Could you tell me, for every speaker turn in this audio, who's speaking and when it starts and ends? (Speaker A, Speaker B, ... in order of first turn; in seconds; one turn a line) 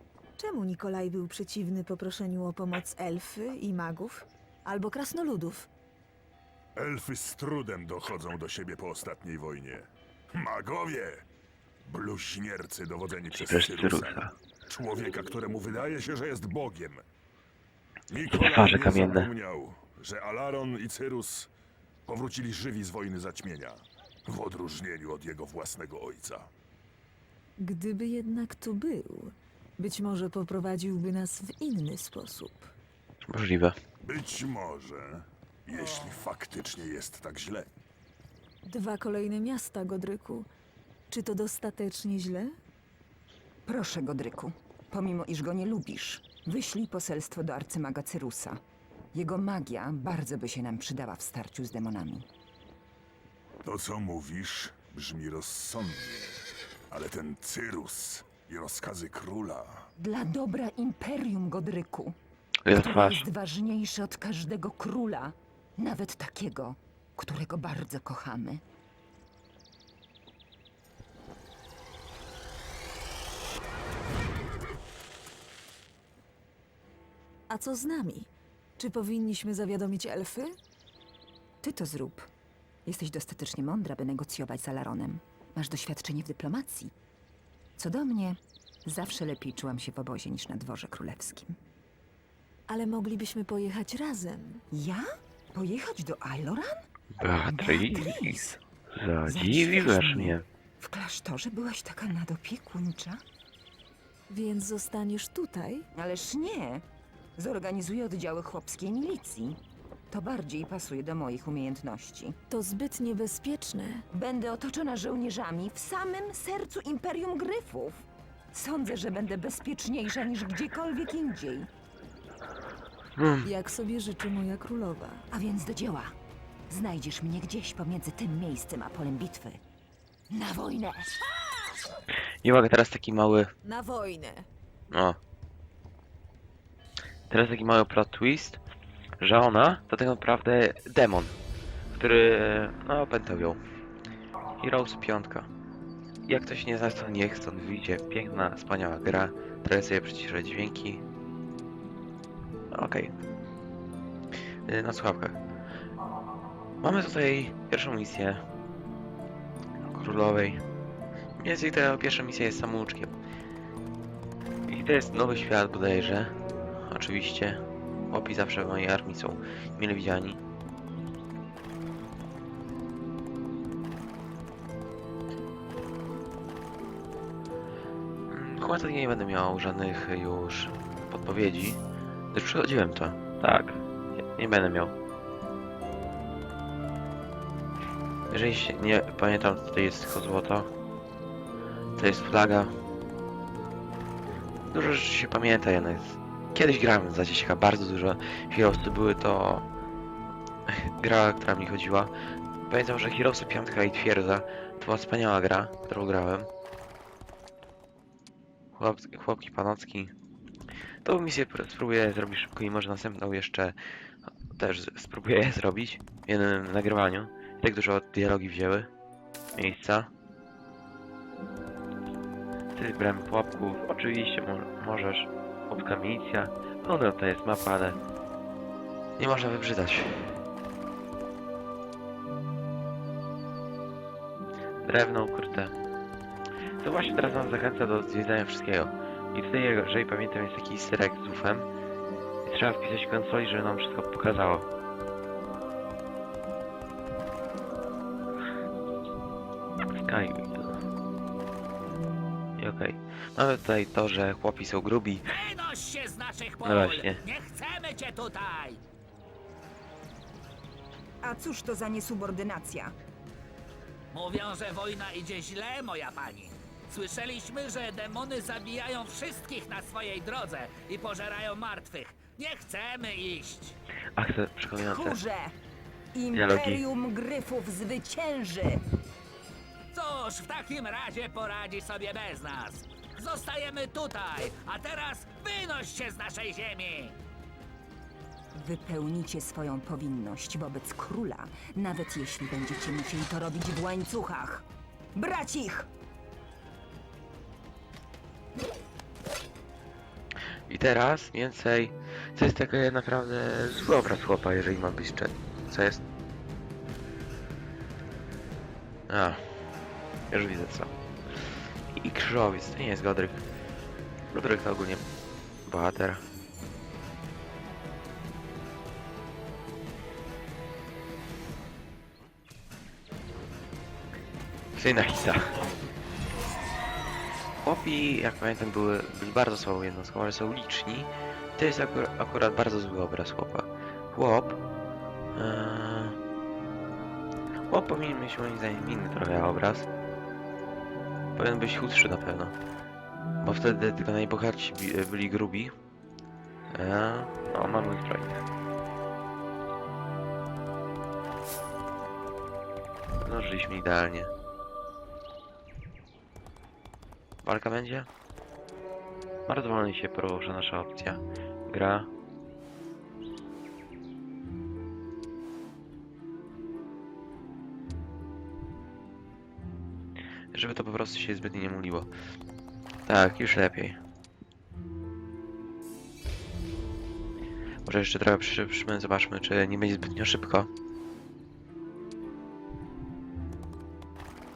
Speaker A: 0.4-5.7
Speaker B: 6.8-11.2
Speaker B: 11.8-17.0
Speaker C: 13.3-14.3
Speaker B: 18.1-21.5
Speaker C: 18.3-19.3
Speaker B: 22.1-26.5
Speaker A: 27.6-32.7
Speaker C: 33.3-33.7
Speaker B: 34.0-37.7
Speaker A: 38.6-40.5
Speaker A: 41.1-42.5
Speaker D: 43.6-48.6
Speaker D: 49.1-52.3
Speaker B: 53.6-59.9
Speaker D: 60.0-62.2
Speaker C: 62.6-63.2
Speaker D: 62.7-68.6
Speaker A: 77.5-80.5
Speaker D: 81.6-82.3
Speaker D: 82.8-86.9
Speaker D: 87.8-91.6
Speaker A: 92.7-94.6
Speaker D: 94.7-96.8
Speaker C: 97.2-100.4
Speaker D: 97.4-98.5
Speaker D: 99.2-103.2
Speaker A: 104.3-105.9
Speaker D: 105.9-106.8
Speaker D: 107.4-109.6
Speaker D: 110.1-112.3
Speaker A: 112.5-114.0
Speaker D: 114.1-121.7
Speaker C: 123.2-123.5
Speaker A: 123.4-125.2
Speaker D: 125.3-126.1
Speaker D: 126.7-129.6
Speaker D: 130.3-131.2
Speaker C: 132.4-133.5
Speaker A: 133.6-134.5
Speaker C: 134.9-135.2
Speaker C: 137.3-138.6
Speaker C: 139.2-141.3
Speaker C: 141.9-143.6
Speaker C: 144.6-145.5
Speaker C: 146.3-151.0
Speaker C: 152.7-153.1
Speaker C: 154.7-155.4
Speaker C: 156.8-158.4
Speaker C: 159.8-160.6
Speaker C: 161.4-163.1
Speaker C: 164.7-170.4
Speaker C: 178.3-181.8
Speaker C: 182.3-184.9
Speaker C: 188.3-190.7
Speaker C: 191.9-192.7
Speaker C: 194.7-199.6
Speaker C: 200.7-202.1
Speaker C: 202.7-206.5
Speaker C: 208.8-210.1
Speaker C: 211.0-213.8
Speaker C: 214.5-218.9
Speaker C: 219.6-220.1
Speaker C: 222.7-228.0
Speaker C: 229.2-230.4
Speaker C: 234.8-235.7
Speaker C: 236.8-241.7
Speaker C: 242.4-244.7
Speaker C: 249.9-250.8
Speaker C: 252.6-255.2
Speaker E: 255.3-258.8
Speaker C: 256.6-257.2
Speaker D: 261.2-262.9
Speaker E: 264.1-273.8
Speaker C: 274.2-275.2
Speaker D: 274.8-275.5
Speaker D: 276.1-278.8
Speaker C: 276.3-276.8
Speaker E: 279.9-287.1
Speaker D: 288.5-295.9
Speaker C: 300.7-306.0
Speaker C: 309.1-309.4
Speaker C: 310.3-313.4
Speaker C: 314.3-315.0
Speaker C: 315.6-316.2
Speaker C: 324.7-325.6
Speaker C: 327.6-334.6
Speaker C: 335.3-336.2
Speaker C: 337.7-339.9
Speaker C: 341.4-342.5
Speaker C: 343.4-345.7
Speaker C: 346.7-348.4
Speaker C: 353.2-354.3
Speaker C: 357.4-358.1
Speaker C: 359.5-362.1
Speaker C: 370.5-372.1
Speaker C: 373.1-374.0
Speaker C: 377.8-380.7